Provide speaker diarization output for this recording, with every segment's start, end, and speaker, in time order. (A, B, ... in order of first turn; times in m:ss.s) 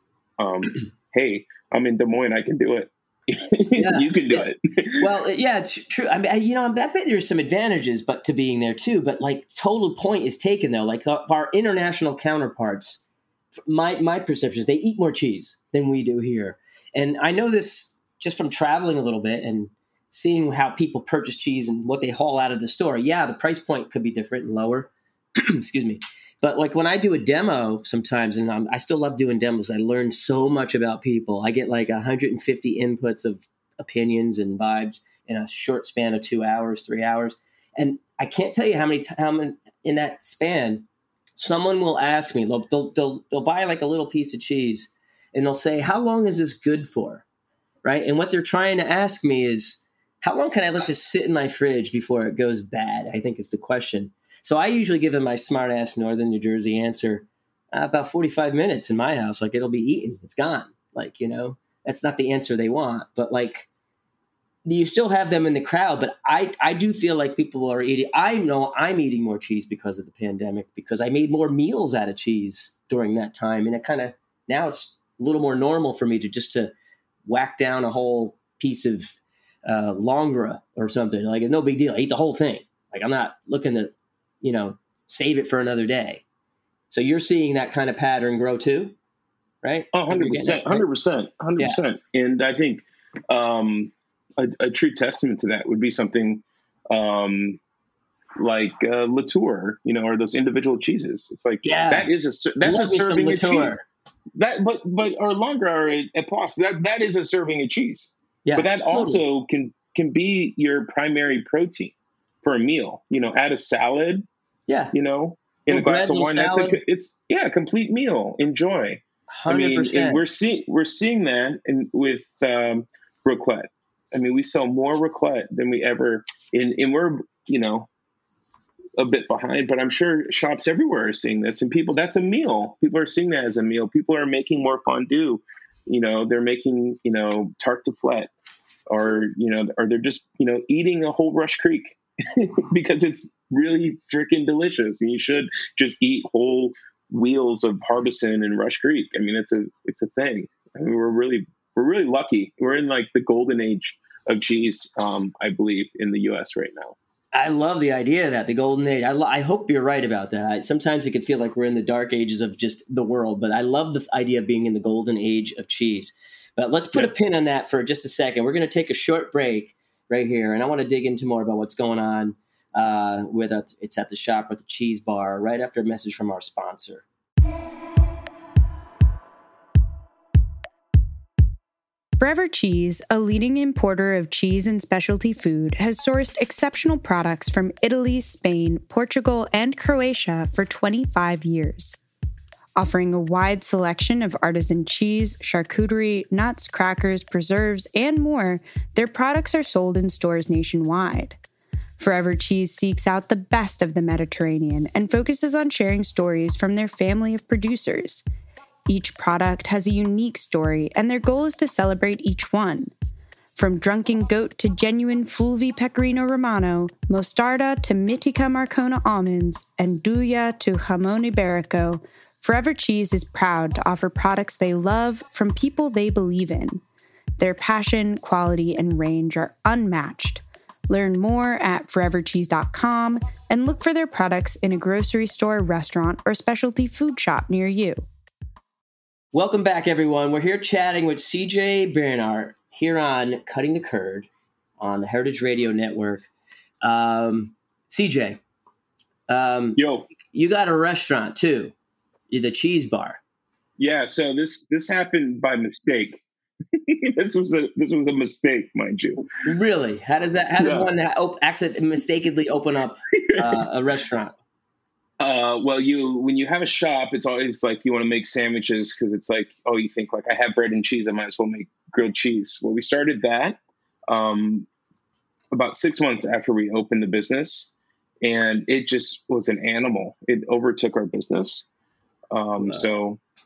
0:00.4-0:05.1 A
0:03.7-0:04.5 B
0:05.0-0:13.0 B
0:13.6-0:47.2 B
0:47.8-1:03.7 B
1:04.6-1:16.7 B
1:17.2-1:26.2 B
1:26.9-1:28.9 B
1:29.6-1:30.8 B
1:29.9-1:37.6 A
1:38.4-1:43.7 A
1:41.6-1:42.1 B
1:42.6-1:43.8 B
1:44.4-1:54.2 A
1:48.4-1:49.2 B
1:54.7-1:54.9 B
1:54.9-2:07.9 A
1:55.7-1:56.8 B
1:59.3-2:00.2 B
2:09.0-2:18.3 A
2:18.9-2:37.0 A
2:37.3-2:57.0 B
3:02.2-3:12.0 C
3:12.8-3:21.4 C
3:22.0-3:28.2 C
3:28.9-3:32.9 C
3:33.6-3:46.8 C
3:47.4-3:58.0 C
3:59.3-4:06.3 B
4:06.8-4:08.4 B
4:09.3-4:11.7 B
4:09.8-4:10.1 A
4:12.3-4:13.2 B
4:13.8-4:16.2 A
4:16.9-4:19.2 A
4:19.4-4:24.4 B
4:20.6-4:20.9 A
4:23.2-4:23.6 A
4:25.2-4:34.7 A
4:35.5-4:41.6 A
4:42.3-4:43.2 A